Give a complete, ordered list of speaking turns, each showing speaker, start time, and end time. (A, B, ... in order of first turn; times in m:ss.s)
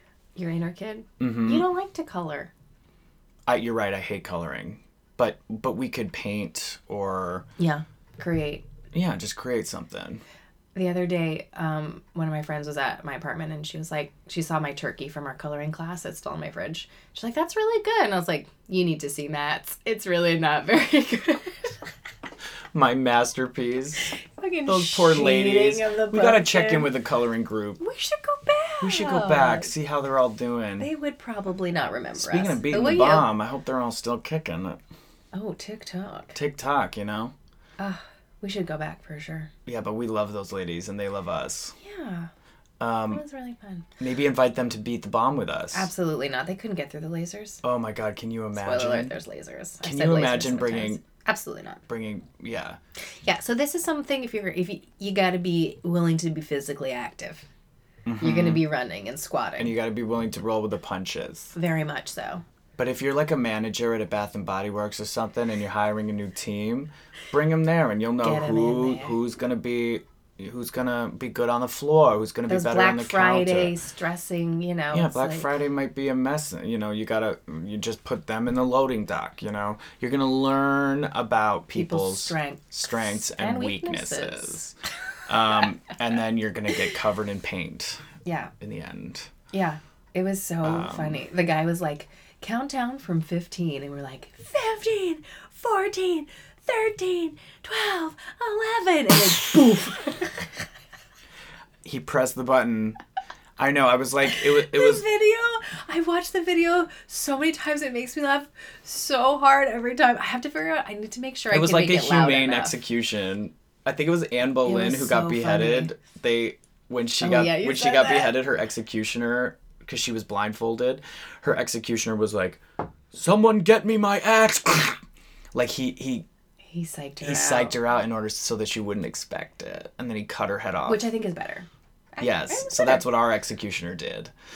0:00.4-0:02.5 A
0:01.2-0:01.6 B
0:03.5-0:07.4 B
0:07.6-0:08.6 A
0:08.9-0:10.2 B
0:10.7-0:21.8 A
0:22.7-0:24.1 B
0:24.2-0:26.9 A
0:24.6-0:27.8 B
0:27.8-0:29.7 A
0:28.8-0:30.9 B
0:30.8-0:33.3 A
0:32.1-0:34.8 B
0:35.3-0:36.4 A
0:36.3-0:37.3 B
0:37.8-0:39.5 A
0:39.6-0:41.7 B
0:41.8-0:42.3 A
0:42.8-0:43.2 B
0:43.1-0:43.9 A
0:44.0-0:45.9 B
0:45.7-0:47.6 A
0:47.6-0:49.1 B
0:48.6-0:51.8 A
0:49.8-0:51.0 B
0:51.9-0:52.8 B
0:53.2-0:57.5 A
0:58.0-0:58.6 B
0:58.2-0:59.7 A
0:59.6-1:01.5 B
1:01.5-1:02.4 A
1:02.8-1:13.7 B
1:08.2-1:09.2 A
1:12.5-1:15.5 A
1:14.9-1:24.7 B
1:21.7-1:24.6 A
1:25.3-1:28.0 B
1:28.2-1:28.5 A
1:28.6-1:29.3 B
1:29.5-1:40.5 A
1:30.6-1:31.2 B
1:41.8-1:43.0 B
1:43.6-1:45.0 B
1:44.3-1:52.8 A
1:51.5-2:02.6 B
1:54.6-1:55.9 A
1:57.2-1:58.4 A
2:03.1-2:05.0 B
2:05.5-2:06.2 B
2:06.7-2:07.8 A
2:07.2-2:11.1 B
2:10.9-2:13.0 A
2:12.2-2:14.3 B